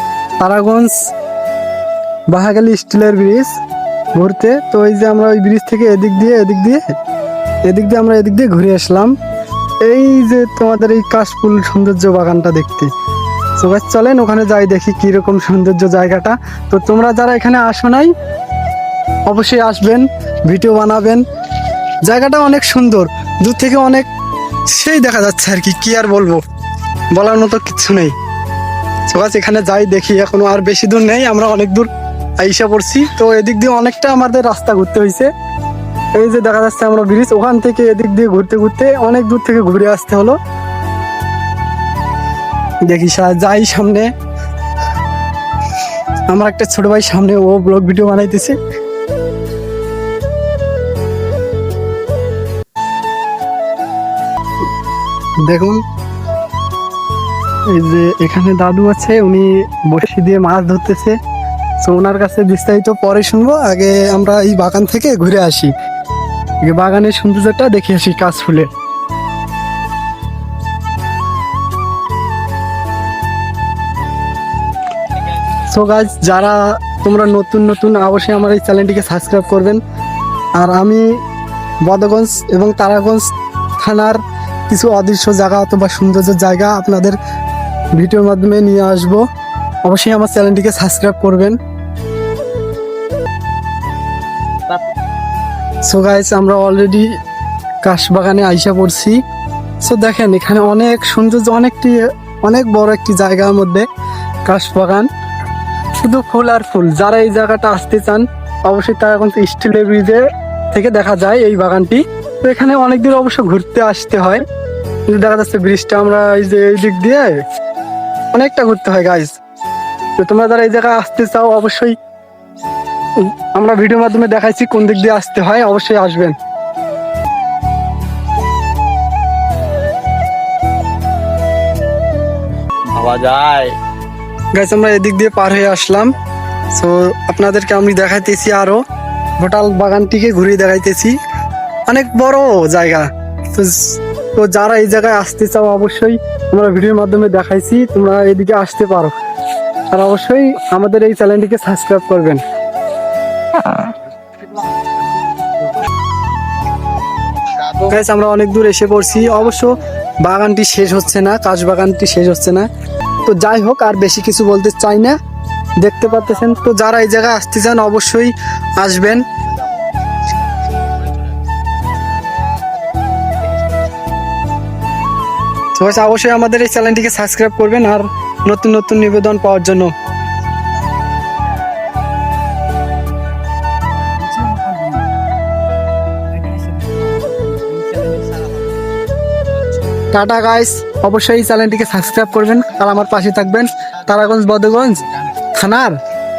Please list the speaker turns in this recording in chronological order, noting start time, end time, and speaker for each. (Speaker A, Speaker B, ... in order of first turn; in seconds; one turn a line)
Speaker A: 0.4-0.9
Speaker A: 2.3-3.5
Speaker A: 4.1-6.8
Speaker A: 7.7-9.1
Speaker A: 9.8-12.9
Speaker A: 13.6-18.1
Speaker A: 19.3-21.2
Speaker A: 22.1-24.1
Speaker A: 24.7-26.4
Speaker A: 27.1-28.1
Speaker A: 29.1-35.3
Speaker A: 36.2-40.4
Speaker A: 42.9-44.1
Speaker A: 46.3-48.6
Speaker A: 55.5-55.8
Speaker A: 57.7-61.2
Speaker A: 61.8-65.7
Speaker A: 66.6-68.7
Speaker A: 75.6-79.8
Speaker A: 80.6-81.0
Speaker A: 81.8-83.2
Speaker A: 83.8-87.2
Speaker A: 88.0-89.2
Speaker A: 89.8-91.5
Speaker A: 95.9-97.1
Speaker A: 97.8-99.2
Speaker A: 99.8-103.8
Speaker A: 104.5-105.1
Speaker A: 106.0-110.2
Speaker A: 110.7-114.4
Speaker A: 115.1-117.3
Speaker A: 118.3-119.3
Speaker A: 120.2-121.9
Speaker A: 123.5-126.3
Speaker B: 132.9-133.8
Speaker A: 134.5-136.1
Speaker A: 136.7-138.8
Speaker A: 139.4-141.2
Speaker A: 141.9-149.1
Speaker A: 149.9-152.4
Speaker B: 157.4-157.9
Speaker A: 157.8-162.7
Speaker A: 163.2-165.2
Speaker A: 165.8-169.2
Speaker B: 170.7-171.1
Speaker B: 172.2-174.1
Speaker A: 175.7-179.9
Speaker B: 184.2-185.1
Speaker B: 186.3-188.8
Speaker A: 190.1-196.0